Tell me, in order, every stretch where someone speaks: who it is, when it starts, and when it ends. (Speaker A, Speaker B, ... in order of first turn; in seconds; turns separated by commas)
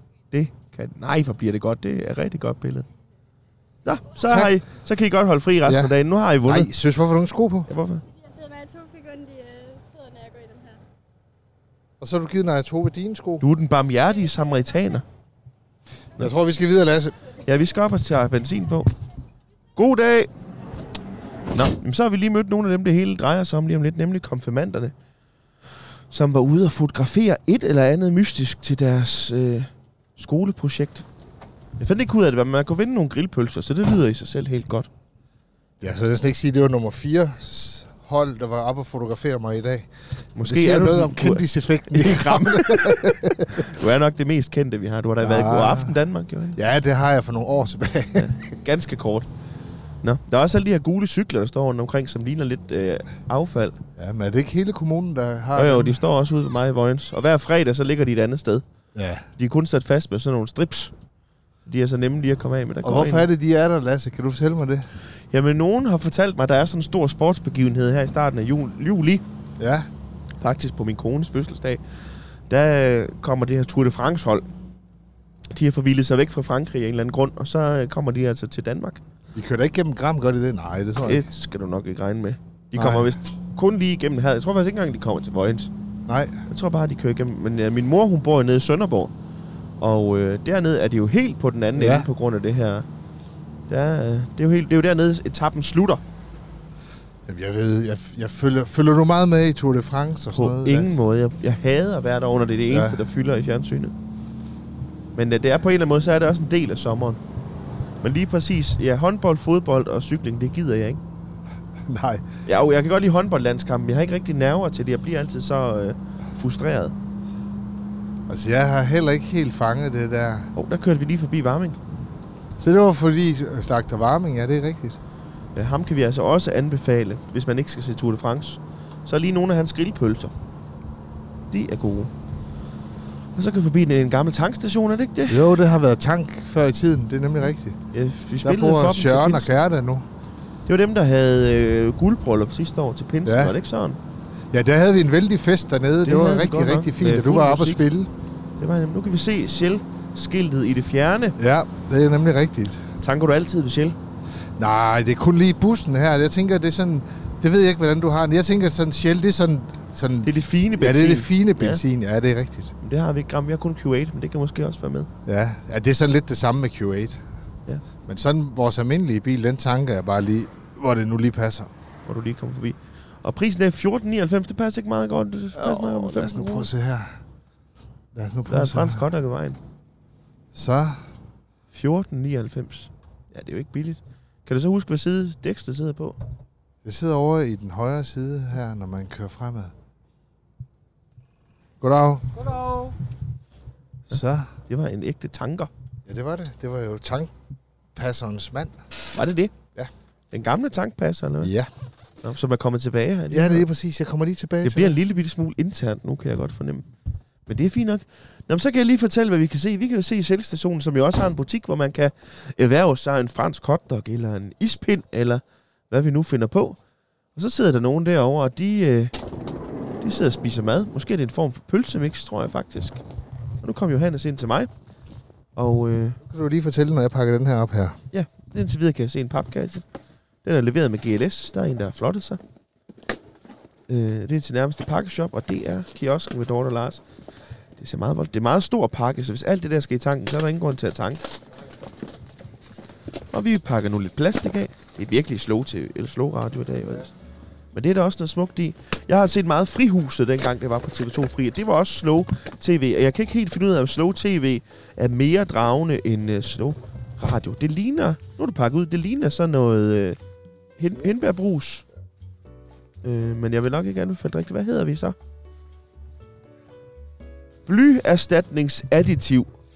Speaker A: 0.3-2.9, Speaker A: 3.9-6.7, Speaker B: 4.2-4.6, Speaker B: 5.6-7.7, Speaker A: 7.7-8.0, Speaker C: 8.2-10.8, Speaker B: 12.0-13.4, Speaker A: 13.4-15.1, Speaker B: 16.2-17.2, Speaker A: 17.5-18.9, Speaker A: 19.8-20.3, Speaker A: 21.5-24.9, Speaker A: 26.1-31.1, Speaker A: 31.8-34.9, Speaker B: 35.8-43.8, Speaker A: 40.4-46.6, Speaker B: 45.2-46.0, Speaker B: 46.5-48.5, Speaker A: 48.2-49.3, Speaker A: 50.0-53.8, Speaker B: 54.0-56.0, Speaker A: 55.5-58.6, Speaker B: 59.0-59.3, Speaker A: 59.4-60.9, Speaker A: 61.7-63.3, Speaker B: 62.8-64.9, Speaker A: 65.3-69.2, Speaker B: 69.6-69.9, Speaker A: 70.4-71.8, Speaker A: 72.5-74.5, Speaker A: 75.5-79.0, Speaker B: 79.3-81.3, Speaker A: 81.0-85.7, Speaker B: 82.8-83.2, Speaker B: 86.1-86.4, Speaker A: 86.5-89.1, Speaker A: 89.8-92.9, Speaker B: 91.8-92.1, Speaker A: 93.7-96.0, Speaker B: 97.3-101.0, Speaker A: 100.3-103.9, Speaker B: 102.7-103.0, Speaker A: 105.2-107.2, Speaker A: 108.0-111.0, Speaker B: 111.9-112.3, Speaker A: 112.5-117.0, Speaker B: 118.3-120.5, Speaker A: 120.5-121.8, Speaker B: 122.6-125.0, Speaker A: 125.5-130.3, Speaker A: 131.5-132.1, Speaker A: 133.3-135.5, Speaker B: 135.3-137.8, Speaker A: 137.9-139.5, Speaker B: 138.4-140.1, Speaker A: 140.7-144.0, Speaker B: 143.2-143.6, Speaker B: 144.5-148.1, Speaker A: 146.0-147.8, Speaker A: 148.6-151.4, Speaker B: 151.4-152.8, Speaker A: 153.0-154.0, Speaker B: 154.6-162.7, Speaker A: 160.2-161.8, Speaker A: 162.8-165.1, Speaker B: 165.3-167.2, Speaker B: 168.1-171.7, Speaker A: 172.1-176.7, Speaker B: 175.6-177.2, Speaker B: 178.1-179.1, Speaker A: 178.5-179.6, Speaker B: 180.5-181.1, Speaker A: 181.7-186.2, Speaker B: 186.8-189.7, Speaker B: 191.8-192.9, Speaker B: 194.1-194.5, Speaker A: 194.7-195.7, Speaker B: 196.1-197.3, Speaker B: 197.9-198.8, Speaker A: 199.1-199.5, Speaker A: 200.3-201.5, Speaker B: 201.4-201.7, Speaker A: 202.2-203.7, Speaker B: 203.3-205.0, Speaker A: 204.6-206.9, Speaker A: 207.5-216.8, Speaker A: 217.3-219.1, Speaker A: 220.0-223.0, Speaker A: 223.6-224.7, Speaker A: 225.6-226.2, Speaker B: 226.2-228.0, Speaker A: 228.1-229.8, Speaker A: 230.4-232.4, Speaker A: 233.9-237.0, Speaker A: 237.8-241.2, Speaker A: 243.3-247.1, Speaker A: 247.7-260.2, Speaker A: 260.8-261.9, Speaker A: 263.0-265.2, Speaker A: 267.7-269.5